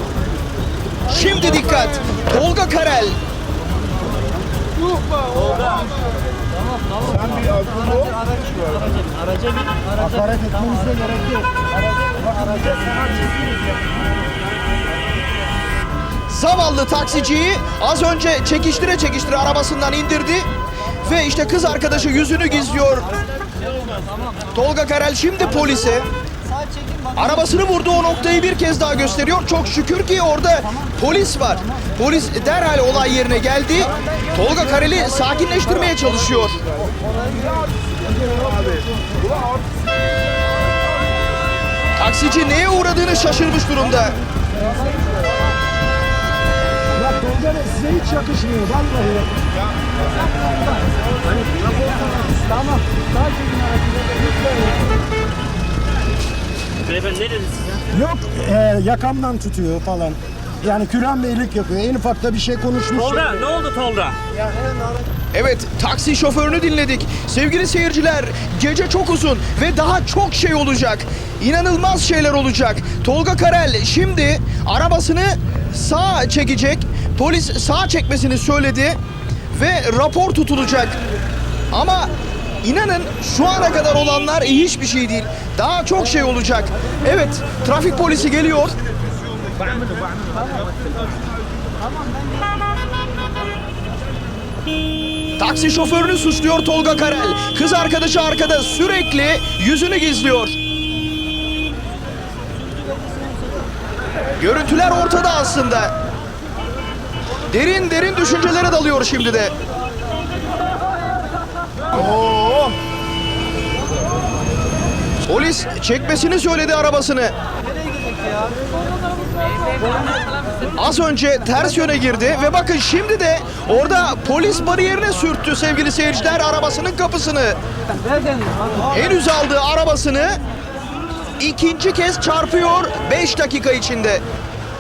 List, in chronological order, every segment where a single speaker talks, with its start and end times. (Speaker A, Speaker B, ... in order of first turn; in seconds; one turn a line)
Speaker A: 1.1-3.2
Speaker B: 5.3-5.8
Speaker B: 6.9-9.9
Speaker C: 9.9-11.5
Speaker C: 12.8-13.2
Speaker A: 16.3-20.5
Speaker A: 21.0-23.1
Speaker A: 24.5-26.1
Speaker A: 27.1-36.6
Speaker A: 42.0-44.2
Speaker C: 47.0-49.3
Speaker C: 51.8-52.8
Speaker B: 56.8-57.9
Speaker C: 57.9-63.4
Speaker B: 62.9-64.3
Speaker A: 65.3-79.0
Speaker A: 79.5-81.0
Speaker A: 81.7-82.1
Speaker A: 82.6-88.7
Speaker A: 95.4-100.5
Speaker A: 104.4-105.9
Speaker A: 107.5-109.5
Speaker A: 112.0-112.7
Speaker A: 115.2-117.3
Speaker B: 117.8-118.6
Speaker A: 120.8-127.6
Speaker B: 128.1-128.7
Speaker A: 128.8-130.4
Speaker A: 131.4-134.2